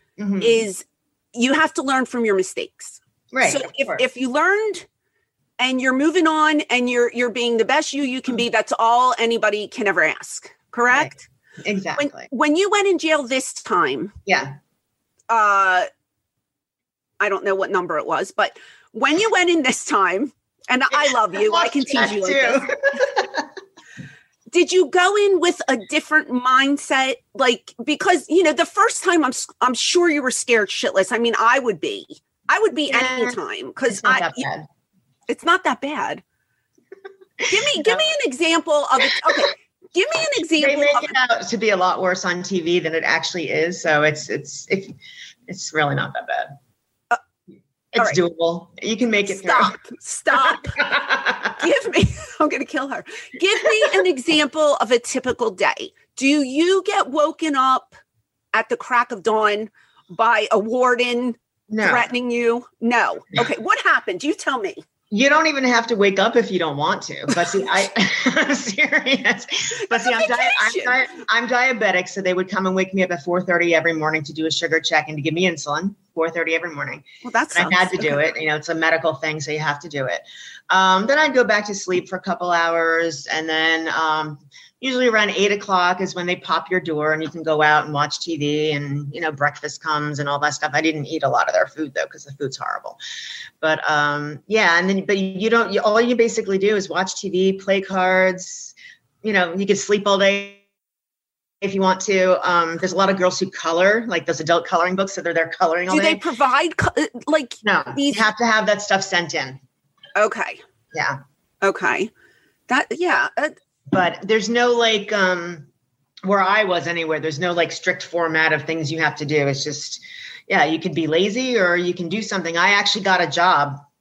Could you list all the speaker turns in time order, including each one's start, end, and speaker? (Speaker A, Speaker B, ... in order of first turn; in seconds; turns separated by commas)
Speaker A: 0.2-0.6, Speaker B: 0.4-4.9, Speaker A: 3.3-4.0, Speaker B: 5.6-11.3, Speaker A: 10.9-12.3, Speaker B: 12.0-14.2, Speaker A: 14.3-14.5, Speaker B: 15.3-15.9, Speaker B: 17.2-22.7, Speaker A: 21.1-23.5, Speaker B: 24.5-34.5, Speaker A: 32.9-33.4, Speaker A: 33.9-34.7, Speaker B: 35.3-36.2, Speaker A: 37.4-38.0, Speaker B: 37.5-41.1, Speaker A: 40.6-45.0, Speaker A: 45.5-46.6, Speaker A: 47.9-49.8, Speaker B: 49.2-50.8, Speaker A: 50.3-51.5, Speaker B: 51.5-58.0, Speaker B: 58.5-64.8, Speaker A: 61.7-62.1, Speaker A: 65.1-93.0, Speaker B: 69.8-71.1, Speaker B: 77.2-78.3, Speaker A: 93.6-100.6, Speaker A: 101.6-106.2, Speaker B: 105.9-108.3, Speaker A: 107.6-109.6, Speaker B: 110.2-110.6, Speaker A: 110.9-111.2, Speaker B: 111.6-112.1, Speaker B: 112.7-113.5, Speaker A: 113.9-115.7, Speaker A: 116.2-123.8